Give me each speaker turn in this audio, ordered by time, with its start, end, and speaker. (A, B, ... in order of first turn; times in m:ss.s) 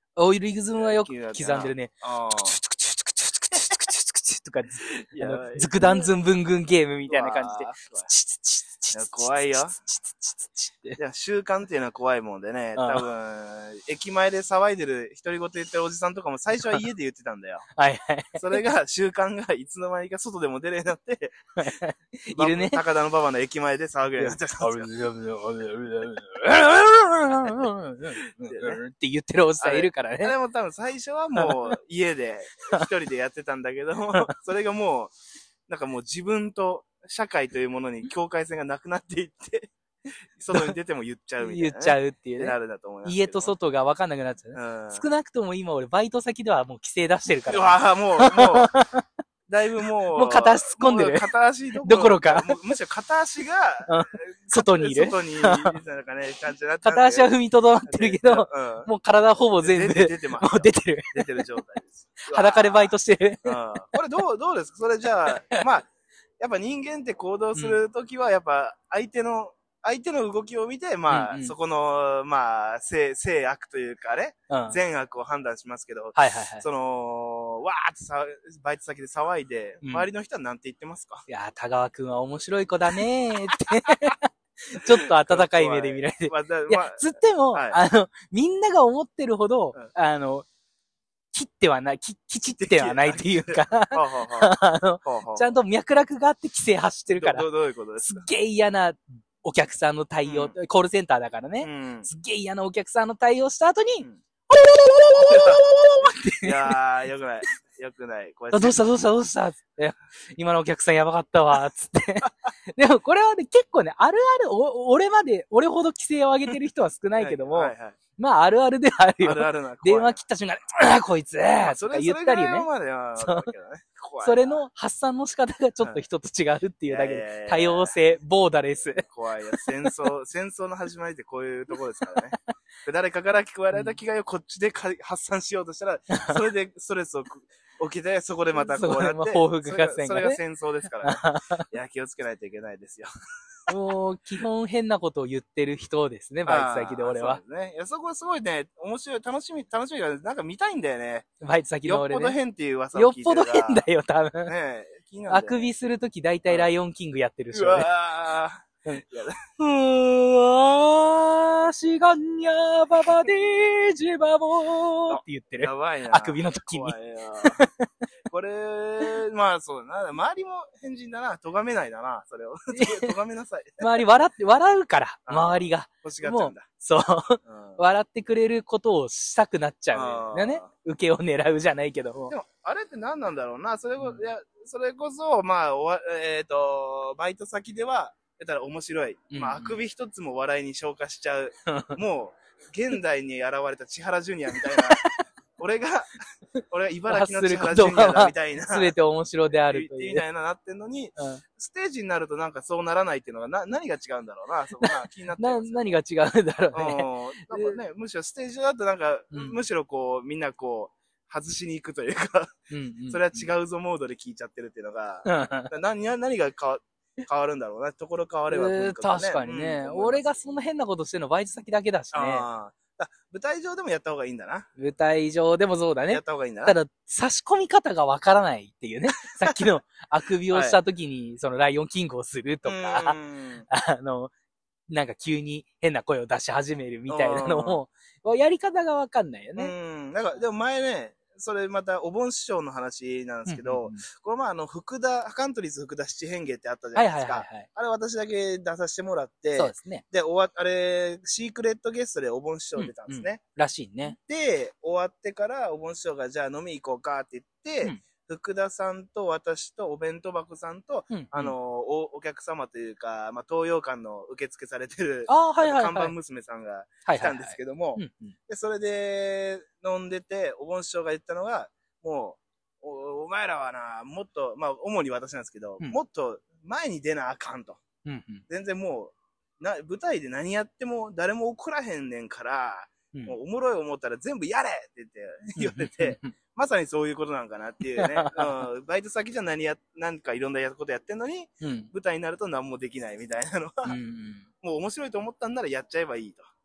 0:00.2-0:11.0 A
0:00.7-0:02.6 B
0:05.0-0:06.1 B
0:07.1-0:08.1 B
0:08.9-0:09.8 B
0:11.0-0:17.7 B
0:12.8-0:13.0 A
0:17.8-0:18.6 A
0:18.3-0:21.4 B
0:21.6-0:22.8 A
0:22.3-0:24.9 B
0:24.2-0:30.3 A
0:28.4-0:28.8 B
0:29.6-0:35.1 B
0:35.7-0:39.7 B
0:40.4-0:43.5 B
0:41.4-0:49.0 A
0:44.5-0:45.0 B
0:47.5-0:48.8 B
0:49.5-0:57.3 B
0:50.1-0:52.6 A
0:53.9-0:55.7 A
0:56.8-1:01.4 A
0:57.8-0:58.9 B
0:59.6-1:02.9 B
1:02.3-1:03.6 A
1:03.4-1:05.9 B
1:06.4-1:21.3 B
1:11.1-1:11.5 A
1:14.5-1:14.8 A
1:16.1-1:16.6 A
1:19.8-1:20.1 A
1:21.3-1:30.4 A
1:24.8-1:27.8 B
1:31.3-1:37.5 A
1:32.5-1:35.4 B
1:37.1-1:38.3 B
1:38.0-1:46.8 A
1:40.2-1:40.6 B
1:41.6-1:42.1 B
1:45.3-1:45.6 B
1:46.4-1:48.8 B
1:48.5-2:02.7 A
1:57.2-1:58.0 B
1:59.2-2:00.2 B
2:01.6-2:04.6 B
2:03.2-2:03.5 A
2:04.2-2:09.9 A
2:06.9-2:07.9 B
2:09.0-2:23.1 B
2:16.1-2:16.4 A
2:18.5-2:20.4 A
2:21.0-2:21.6 A
2:23.7-2:27.4 A
2:26.5-2:31.3 B
2:31.4-2:32.4 A
2:31.8-2:33.8 B
2:32.9-2:34.5 A
2:34.5-2:35.7 B
2:35.3-2:37.9 A
2:37.5-2:39.5 B
2:39.6-2:47.9 A
2:45.1-2:47.7 B
2:48.3-2:54.0 B
2:52.8-2:53.1 A
2:53.8-3:02.3 A
2:55.3-2:56.7 B
2:57.4-2:57.8 B
2:59.9-3:00.7 B
3:02.3-3:16.2 B
3:09.3-3:09.8 A
3:11.7-3:12.0 A
3:14.6-3:15.1 A
3:16.7-3:18.9 B
3:17.1-3:20.2 A
3:19.7-3:26.0 B
3:24.8-3:27.8 A
3:26.7-3:32.6 B
3:29.3-3:29.6 A
3:32.7-3:33.5 A
3:33.1-3:40.5 B
3:35.2-3:35.7 A
3:38.5-3:42.5 A
3:42.1-3:44.7 B
3:44.8-3:53.2 A
3:46.1-3:46.8 B
3:50.5-3:50.8 B
3:52.6-3:53.7 B
3:53.7-3:54.3 A
3:54.9-3:59.7 A
3:57.1-3:57.8 B
3:59.6-4:13.4 B
4:03.5-4:04.0 A
4:06.9-4:07.7 A
4:09.6-4:10.0 A
4:12.8-4:14.2 A
4:14.1-4:37.8 B
4:21.1-4:21.5 A
4:25.3-4:26.1 A
4:27.0-4:28.4 A
4:38.0-4:38.4 A
4:38.5-4:54.0 B
4:45.6-4:46.3 A
4:48.0-4:48.6 A
4:51.6-4:51.9 A
4:53.8-4:54.5 A
4:54.6-4:56.4 B